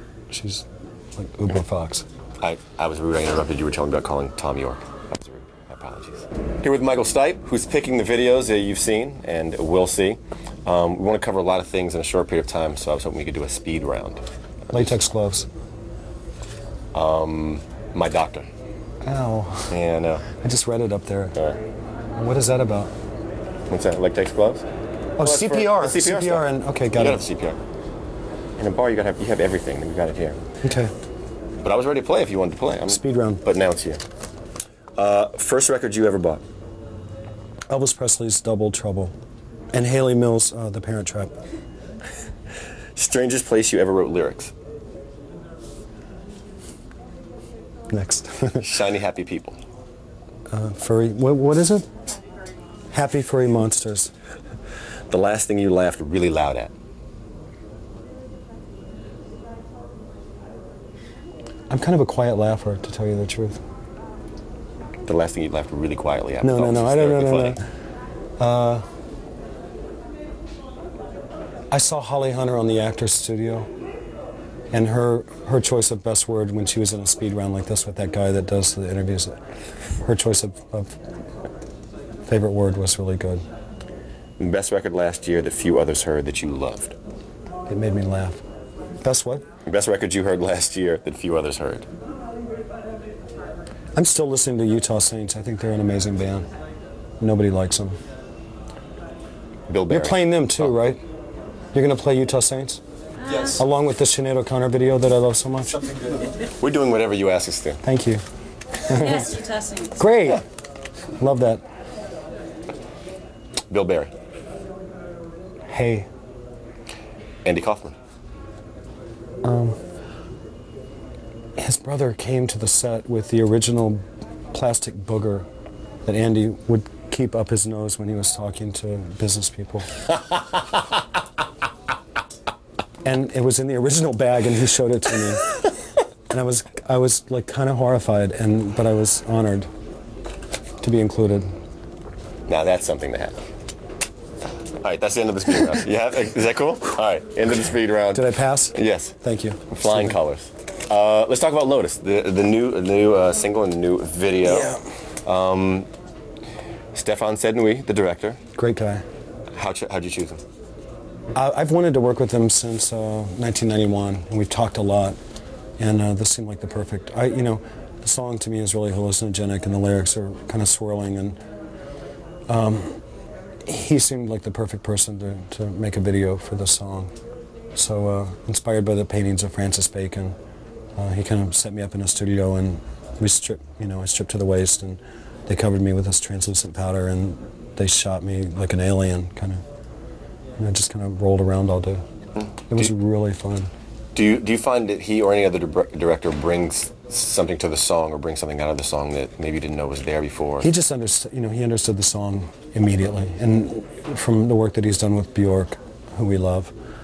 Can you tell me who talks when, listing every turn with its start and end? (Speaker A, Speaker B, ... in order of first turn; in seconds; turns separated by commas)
Speaker A: 0.3-2.0, Speaker B: 2.4-14.2, Speaker A: 14.7-15.5, Speaker B: 16.9-18.5, Speaker A: 19.0-19.8, Speaker B: 19.7-20.2, Speaker A: 20.4-21.4, Speaker A: 22.2-22.9, Speaker B: 23.7-24.6, Speaker A: 25.2-27.2, Speaker B: 25.2-27.6, Speaker B: 28.6-30.4, Speaker A: 30.6-30.9, Speaker B: 31.6-34.0, Speaker A: 32.9-33.4, Speaker B: 35.0-36.4, Speaker A: 37.7-39.1, Speaker A: 39.7-41.4, Speaker B: 43.0-44.5, Speaker A: 47.9-48.6, Speaker B: 48.6-49.6, Speaker A: 50.5-51.9, Speaker A: 52.9-54.1, Speaker B: 55.1-56.7, Speaker A: 61.7-63.6, Speaker B: 65.1-67.6, Speaker A: 66.4-67.6, Speaker A: 68.4-68.9, Speaker A: 71.7-73.7, Speaker A: 74.7-79.4, Speaker A: 80.0-81.0, Speaker A: 82.3-83.4, Speaker B: 84.4-87.0, Speaker A: 87.7-88.4, Speaker A: 89.0-89.5, Speaker B: 89.7-91.9, Speaker A: 94.0-96.5, Speaker A: 97.2-98.0, Speaker B: 99.7-100.7, Speaker A: 99.9-101.0, Speaker A: 101.7-106.1, Speaker B: 106.6-107.8, Speaker A: 107.8-108.2, Speaker A: 108.8-110.4, Speaker A: 111.2-111.6, Speaker B: 113.7-114.1, Speaker A: 115.7-116.1, Speaker B: 117.5-118.0, Speaker A: 119.4-119.8, Speaker A: 121.6-125.5, Speaker A: 126.0-130.0, Speaker A: 133.0-135.6, Speaker A: 136.3-139.7, Speaker A: 140.8-141.5, Speaker B: 142.5-143.4, Speaker B: 144.8-149.2, Speaker A: 148.1-150.2, Speaker B: 149.7-155.9, Speaker A: 154.5-154.8, Speaker B: 156.9-158.4, Speaker A: 158.6-159.0, Speaker B: 159.6-160.4, Speaker A: 161.3-165.2, Speaker A: 165.8-171.4, Speaker A: 172.5-173.0, Speaker A: 173.7-177.1, Speaker A: 177.7-180.4, Speaker A: 181.0-189.6, Speaker A: 190.6-192.0, Speaker B: 192.4-192.9, Speaker A: 192.7-193.7, Speaker B: 194.2-200.7, Speaker A: 200.6-206.7